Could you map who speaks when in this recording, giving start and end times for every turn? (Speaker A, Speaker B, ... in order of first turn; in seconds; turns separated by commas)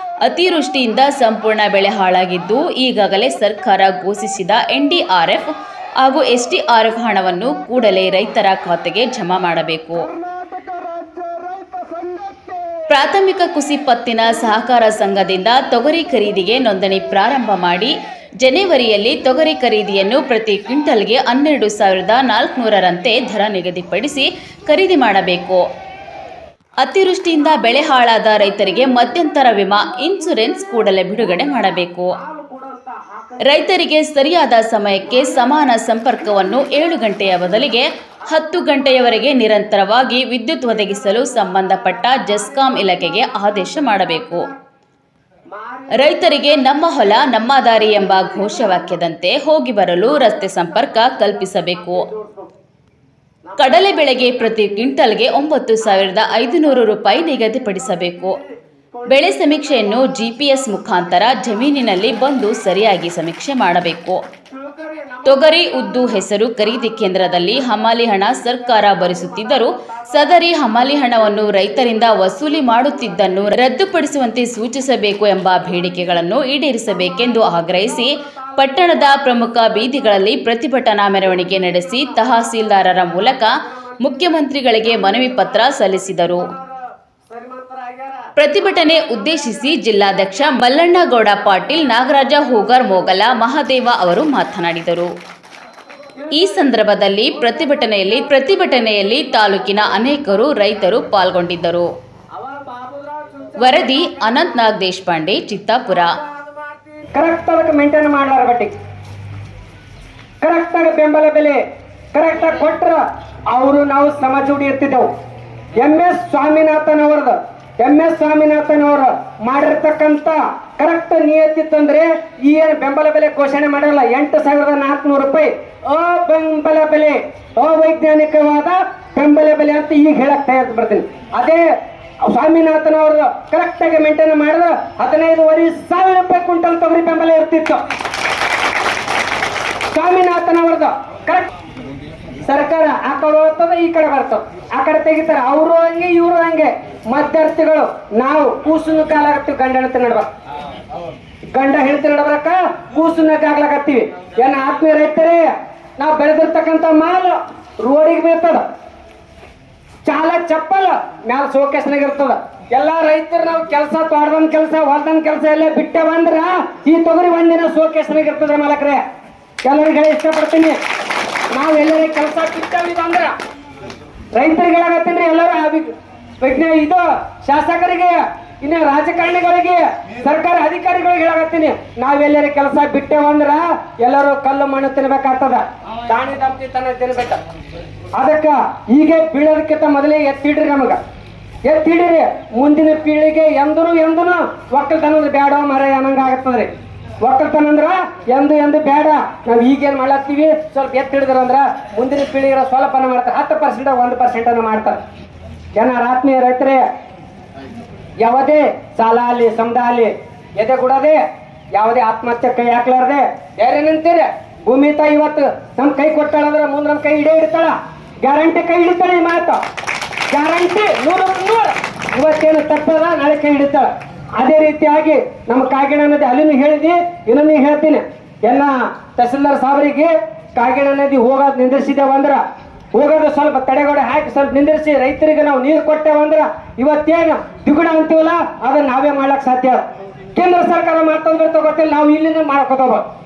Speaker A: 0.2-10.1, Speaker B: 10.0-12.9, Speaker A: 12.9-25.6, Speaker A: 26.8-32.2, Speaker B: 30.0-30.6, Speaker B: 32.1-33.8, Speaker A: 33.5-44.5, Speaker B: 35.1-35.5, Speaker B: 36.3-37.0, Speaker B: 38.3-39.2, Speaker B: 40.7-44.6, Speaker B: 45.5-46.8, Speaker A: 46.0-52.0, Speaker B: 47.7-49.0, Speaker B: 50.2-52.5, Speaker B: 53.5-54.8, Speaker A: 53.6-58.4, Speaker B: 55.8-60.5, Speaker A: 59.1-64.2, Speaker B: 64.5-67.8, Speaker A: 65.3-86.5, Speaker B: 68.4-73.7, Speaker B: 76.9-80.3, Speaker B: 81.2-93.5, Speaker A: 88.4-95.1, Speaker B: 96.2-101.1, Speaker A: 96.3-101.9, Speaker B: 102.3-104.7, Speaker A: 103.6-106.1, Speaker B: 105.9-108.7, Speaker B: 110.4-111.6, Speaker B: 112.1-115.1, Speaker B: 115.8-131.7, Speaker B: 132.2-137.8, Speaker B: 139.9-141.5, Speaker B: 142.5-150.3, Speaker B: 151.5-158.7, Speaker B: 160.1-169.0, Speaker B: 169.7-170.8, Speaker B: 171.5-173.3, Speaker B: 174.3-187.4, Speaker B: 188.2-191.0, Speaker B: 191.7-196.7, Speaker B: 197.2-205.0, Speaker B: 205.8-206.8, Speaker B: 208.2-211.2, Speaker B: 211.8-219.6, Speaker B: 220.3-232.4, Speaker B: 232.9-243.1